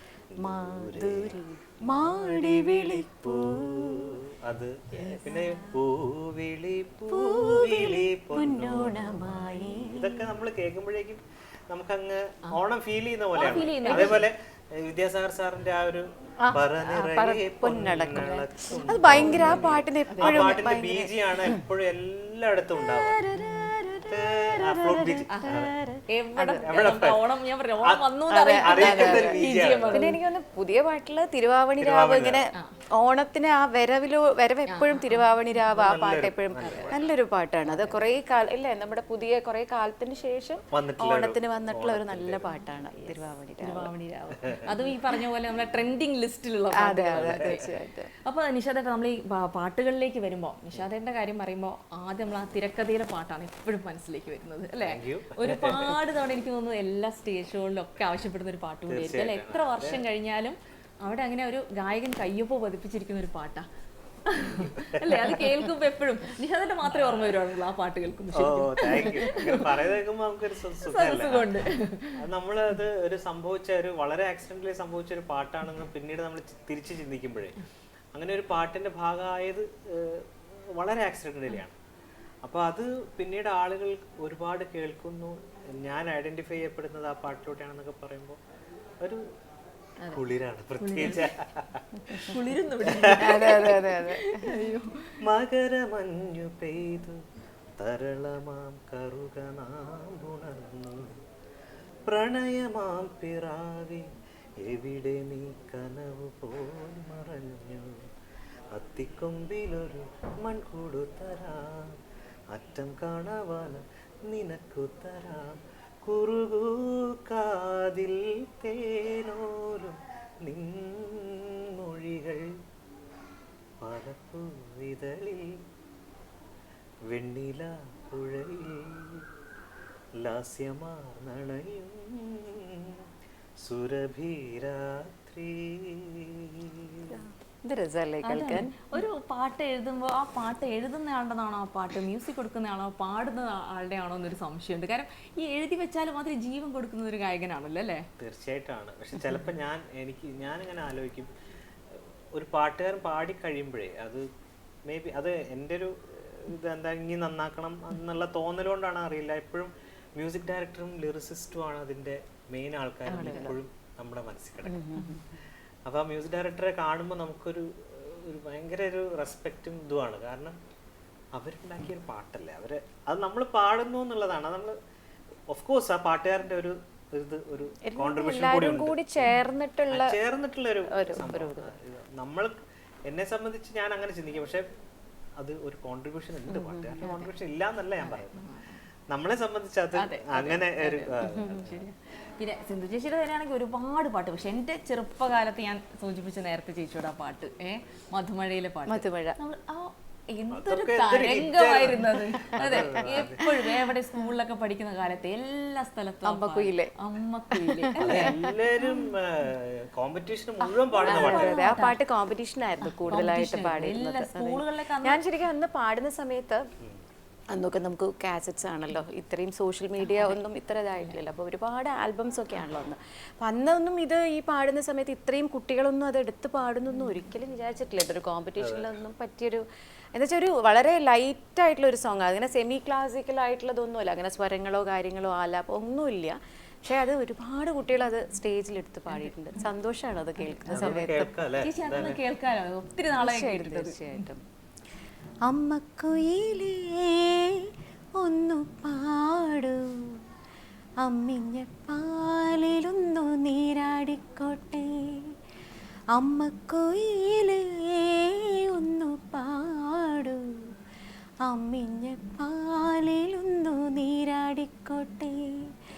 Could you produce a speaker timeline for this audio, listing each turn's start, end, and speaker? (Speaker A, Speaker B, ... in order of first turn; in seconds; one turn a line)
Speaker A: 0.3-1.4
Speaker B: 0.4-4.1
Speaker A: 1.9-25.7
Speaker C: 4.9-5.3
Speaker B: 5.2-5.8
Speaker B: 7.1-10.3
Speaker C: 13.3-14.2
Speaker B: 13.8-14.2
Speaker B: 16.4-21.6
Speaker C: 18.7-20.6
Speaker B: 22.8-26.9
Speaker C: 25.3-30.2
Speaker A: 26.6-27.2
Speaker B: 28.3-43.9
Speaker A: 28.6-30.0
Speaker A: 31.8-32.5
Speaker C: 34.7-35.2
Speaker A: 35.7-37.0
Speaker C: 36.6-36.9
Speaker C: 37.7-38.0
Speaker A: 40.7-42.6
Speaker C: 43.0-47.6
Speaker B: 46.8-48.1
Speaker A: 47.1-47.6
Speaker C: 48.2-63.6
Speaker A: 54.9-56.0
Speaker A: 58.9-60.0
Speaker C: 64.3-69.7
Speaker A: 64.5-65.4
Speaker A: 66.9-67.4
Speaker A: 68.3-71.5
Speaker C: 70.8-72.2
Speaker A: 72.2-77.6
Speaker A: 78.1-81.8
Speaker A: 82.4-88.4
Speaker A: 90.1-93.8
Speaker C: 90.8-91.3
Speaker C: 92.1-95.0
Speaker B: 93.1-94.5
Speaker A: 95.2-97.2
Speaker A: 97.8-101.2
Speaker A: 102.1-104.1
Speaker A: 104.6-108.1
Speaker A: 108.7-112.0
Speaker A: 112.5-122.5
Speaker A: 123.8-125.6
Speaker A: 127.1-129.2
Speaker A: 130.2-133.1
Speaker A: 133.6-137.1
Speaker B: 137.1-139.0
Speaker C: 138.2-148.1
Speaker A: 148.2-151.3
Speaker A: 152.3-154.2
Speaker A: 154.9-164.8
Speaker B: 163.1-163.6
Speaker B: 164.6-165.3
Speaker A: 165.8-170.6
Speaker A: 171.3-174.8
Speaker A: 175.5-179.3
Speaker B: 177.9-180.2
Speaker A: 179.9-184.6
Speaker B: 180.9-181.7
Speaker A: 185.4-188.4
Speaker B: 186.5-187.2
Speaker C: 187.0-187.3
Speaker C: 188.0-188.8
Speaker A: 189.1-191.8
Speaker C: 189.9-208.3
Speaker B: 191.2-191.7
Speaker B: 198.9-199.4
Speaker A: 200.5-203.4
Speaker B: 202.8-203.5
Speaker B: 206.2-206.9
Speaker B: 207.5-209.1
Speaker A: 208.0-211.6
Speaker B: 210.6-216.6
Speaker C: 211.0-211.9
Speaker C: 212.8-215.2
Speaker B: 217.5-229.6
Speaker C: 220.0-220.4
Speaker A: 228.6-228.9
Speaker B: 230.1-241.3
Speaker C: 239.1-239.6
Speaker C: 240.4-241.0
Speaker A: 240.7-242.2
Speaker C: 241.6-244.2
Speaker B: 243.2-244.4
Speaker B: 245.5-250.2
Speaker B: 251.0-255.2
Speaker B: 256.1-260.4
Speaker B: 261.4-265.5